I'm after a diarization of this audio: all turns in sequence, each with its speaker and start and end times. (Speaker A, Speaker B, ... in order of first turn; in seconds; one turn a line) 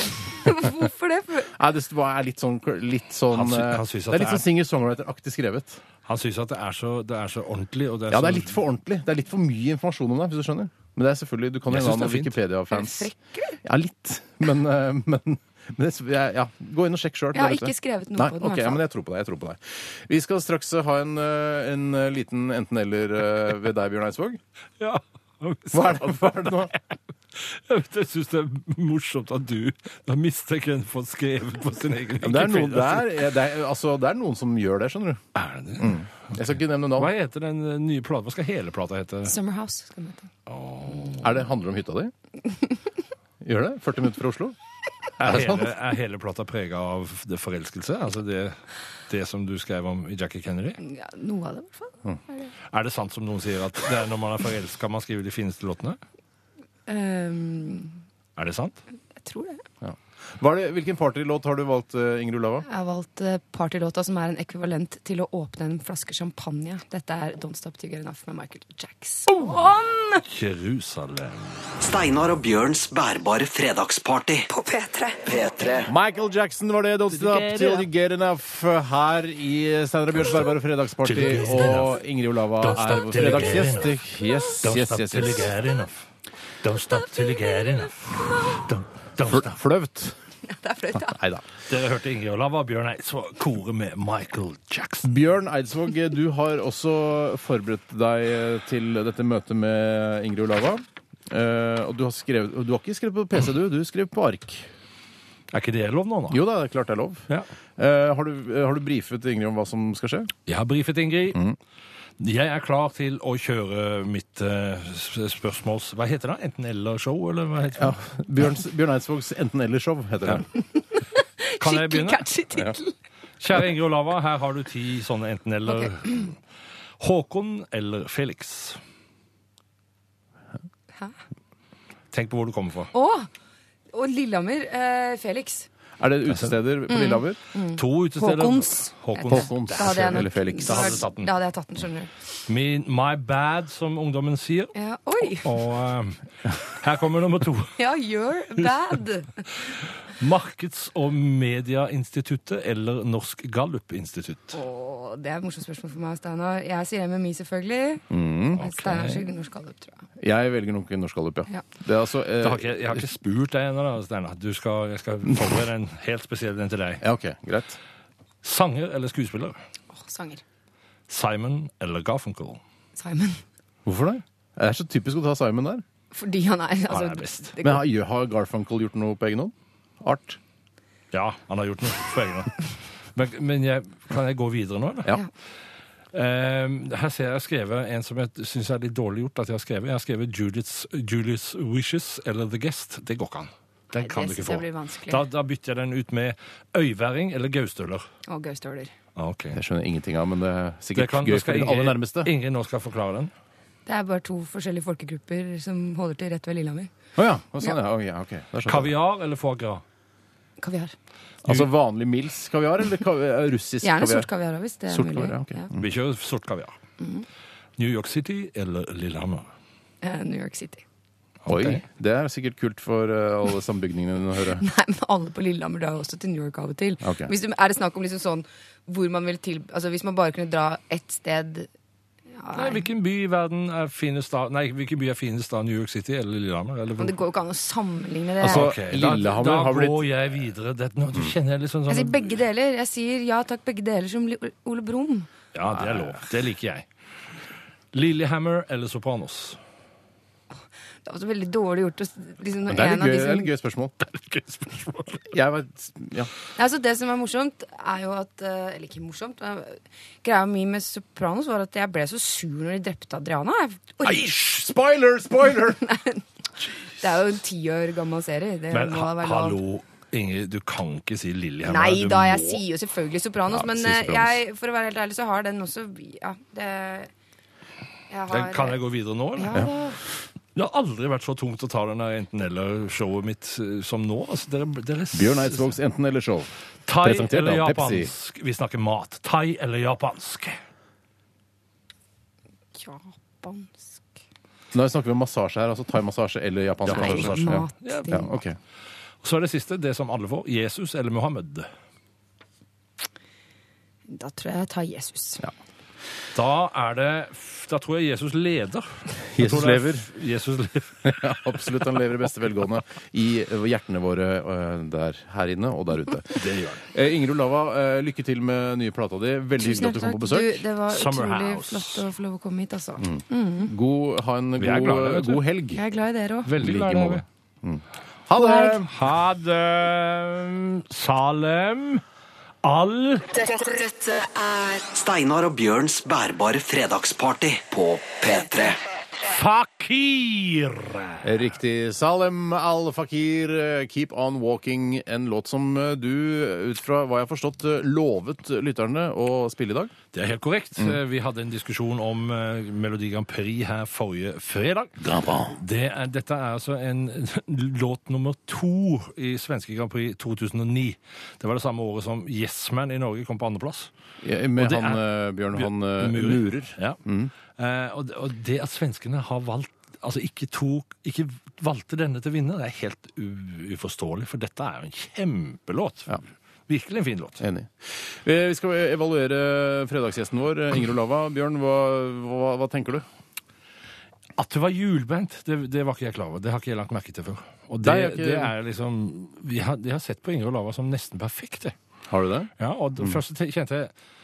Speaker A: 0.3-1.5
Speaker B: 0.4-0.7
Speaker B: 1.5-5.8
Speaker C: 3.3-4.5
Speaker C: 6.0-8.6
Speaker B: 8.1-13.1
Speaker C: 11.7-12.3
Speaker A: 12.7-13.6
Speaker B: 13.6-24.4
Speaker A: 17.3-18.8
Speaker C: 24.8-26.8
Speaker B: 25.7-26.7
Speaker C: 27.3-33.2
Speaker B: 32.2-35.2
Speaker C: 35.3-36.0
Speaker B: 35.8-37.1
Speaker C: 37.0-39.3
Speaker A: 39.2-40.3
Speaker C: 40.5-41.3
Speaker B: 41.2-42.1
Speaker B: 43.4-44.5
Speaker C: 45.2-50.8
Speaker B: 45.2-45.7
Speaker A: 50.8-52.5
Speaker C: 52.7-56.0
Speaker A: 56.9-58.0
Speaker C: 58.4-58.8
Speaker A: 59.1-59.6
Speaker B: 59.8-62.6
Speaker A: 62.6-70.2
Speaker C: 70.2-71.6
Speaker D: 71.8-74.5
Speaker A: 74.5-75.2
Speaker D: 75.3-75.9
Speaker B: 75.8-85.5
Speaker C: 77.1-77.8
Speaker C: 81.0-82.0
Speaker C: 82.6-84.0
Speaker C: 84.6-86.1
Speaker C: 86.6-89.5
Speaker A: 87.1-88.6
Speaker B: 89.2-90.2
Speaker A: 90.4-91.2
Speaker B: 90.9-91.4
Speaker C: 91.7-95.1
Speaker B: 95.0-104.7
Speaker C: 105.5-106.4
Speaker B: 106.3-110.3
Speaker C: 110.5-111.4
Speaker C: 112.2-118.1
Speaker B: 117.8-120.5
Speaker A: 121.0-122.9
Speaker C: 121.6-122.2
Speaker C: 123.4-126.3
Speaker A: 125.7-126.3
Speaker C: 127.0-128.8
Speaker C: 132.1-132.9
Speaker A: 132.9-133.3
Speaker A: 133.9-135.7
Speaker B: 136.0-137.4
Speaker C: 136.3-136.5
Speaker A: 136.9-142.1
Speaker C: 137.7-141.3
Speaker B: 139.3-141.0
Speaker C: 142.5-147.8
Speaker A: 144.7-145.6
Speaker A: 147.8-149.5
Speaker C: 150.1-154.6
Speaker A: 154.5-160.0
Speaker B: 158.1-158.6
Speaker C: 158.6-159.2
Speaker B: 160.2-163.0
Speaker C: 162.4-167.0
Speaker B: 167.0-167.8
Speaker C: 168.4-169.6
Speaker A: 169.9-170.4
Speaker C: 171.1-172.6
Speaker A: 173.0-173.4
Speaker B: 173.8-175.8
Speaker A: 176.1-177.8
Speaker C: 176.9-177.5
Speaker B: 177.6-180.4
Speaker C: 181.1-185.1
Speaker C: 186.1-198.1
Speaker A: 193.9-195.2
Speaker A: 198.3-198.9
Speaker C: 199.2-199.6
Speaker B: 199.5-202.3
Speaker C: 200.9-203.3
Speaker A: 203.8-206.9
Speaker B: 207.2-208.9
Speaker C: 208.7-209.8
Speaker A: 210.6-210.9
Speaker B: 211.4-214.3
Speaker A: 213.8-215.7
Speaker B: 214.9-215.8
Speaker C: 215.7-216.8
Speaker A: 217.0-217.2
Speaker C: 217.8-219.5
Speaker A: 220.0-220.8
Speaker C: 221.4-221.8
Speaker B: 221.5-224.6
Speaker A: 224.6-231.7
Speaker B: 227.0-227.3
Speaker A: 232.4-232.9
Speaker C: 232.5-237.2
Speaker A: 237.0-238.7
Speaker B: 238.4-240.1
Speaker C: 238.4-242.4
Speaker A: 241.9-245.3
Speaker C: 245.5-246.9
Speaker C: 247.9-249.6
Speaker A: 251.0-253.5
Speaker B: 252.7-254.0
Speaker C: 254.0-255.2
Speaker B: 255.3-256.3
Speaker A: 256.6-264.3
Speaker B: 264.0-265.8
Speaker A: 265.6-266.2
Speaker A: 267.0-269.6
Speaker C: 268.7-272.6
Speaker A: 271.6-277.1
Speaker B: 273.5-274.4
Speaker A: 278.1-278.8
Speaker C: 278.3-279.7
Speaker A: 279.4-280.0
Speaker C: 280.5-285.7
Speaker B: 285.1-288.1
Speaker C: 286.9-290.6
Speaker A: 292.7-294.0
Speaker B: 294.7-298.6
Speaker C: 296.8-298.3
Speaker A: 296.9-298.2
Speaker C: 299.2-301.7
Speaker A: 304.1-305.4
Speaker C: 306.3-311.1
Speaker B: 309.3-310.1
Speaker B: 311.0-320.6
Speaker C: 316.3-316.8
Speaker A: 319.6-323.7
Speaker C: 320.9-322.0
Speaker B: 323.0-325.8
Speaker C: 324.6-325.4
Speaker A: 325.7-326.5
Speaker C: 326.4-327.2
Speaker B: 326.6-328.9
Speaker A: 328.3-328.8
Speaker C: 328.8-332.0
Speaker C: 332.6-333.3
Speaker D: 333.4-338.8
Speaker C: 339.2-341.3
Speaker B: 341.2-349.9
Speaker C: 350.1-363.9
Speaker B: 355.0-355.6
Speaker B: 364.2-367.3
Speaker C: 364.6-365.0
Speaker C: 365.5-367.0
Speaker C: 367.6-377.4
Speaker B: 377.4-383.1
Speaker C: 384.4-391.8
Speaker B: 387.8-388.5
Speaker B: 392.1-392.5
Speaker C: 392.6-393.9